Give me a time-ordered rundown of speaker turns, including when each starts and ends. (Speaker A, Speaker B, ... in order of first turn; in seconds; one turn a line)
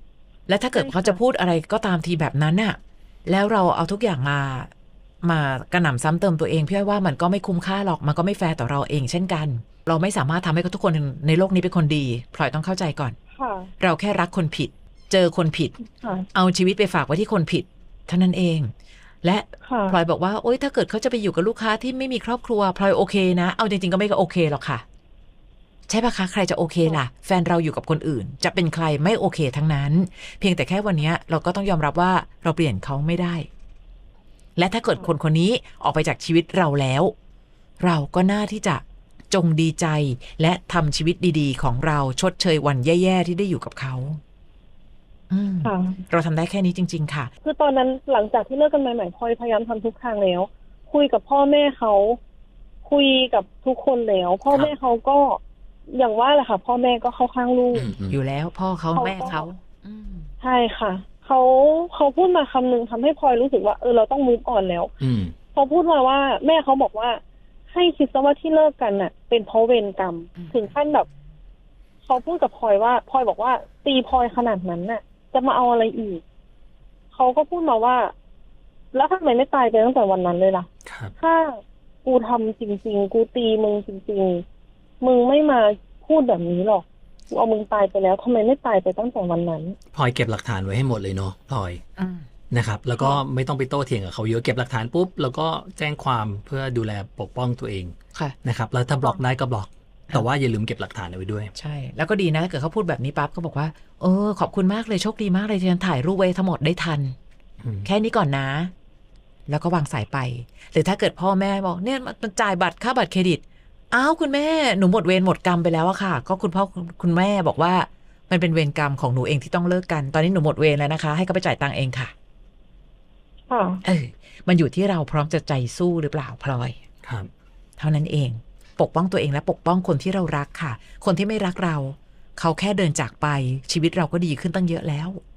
Speaker A: 0.5-4.7
Speaker B: 0.7-1.2
Speaker A: 5.2-13.2
Speaker B: 13.3-13.7
Speaker A: 13.8-15.8
Speaker B: 15.9-16.3
Speaker A: 16.3-18.7
Speaker A: 19.2-24.8
Speaker B: 19.6-20.0
Speaker A: 25.9-33.5
Speaker A: 34.5-37.1
Speaker A: 37.8-44.2
Speaker A: 45.3-47.3
Speaker B: 45.6-46.0
Speaker B: 47.4-52.2
Speaker B: 52.8-57.9
Speaker C: 54.5-54.7
Speaker C: 57.7-58.2
Speaker A: 58.1-60.3
Speaker B: 58.9-59.4
Speaker B: 60.4-64.9
Speaker C: 65.0-65.3
Speaker B: 65.5-71.1
Speaker A: 70.4-70.8
Speaker B: 72.0-76.2
Speaker B: 77.1-78.1
Speaker B: 78.9-80.7
Speaker C: 80.8-81.1
Speaker B: 81.2-84.4
Speaker B: 85.0-89.8
Speaker C: 89.9-91.8
Speaker A: 92.0-92.3
Speaker C: 92.5-101.5
Speaker A: 101.5-107.2
Speaker C: 107.6-107.9
Speaker A: 107.8-108.7
Speaker A: 109.5-122.1
Speaker B: 123.5-123.8
Speaker A: 123.8-126.8
Speaker C: 127.0-127.3
Speaker A: 127.8-135.2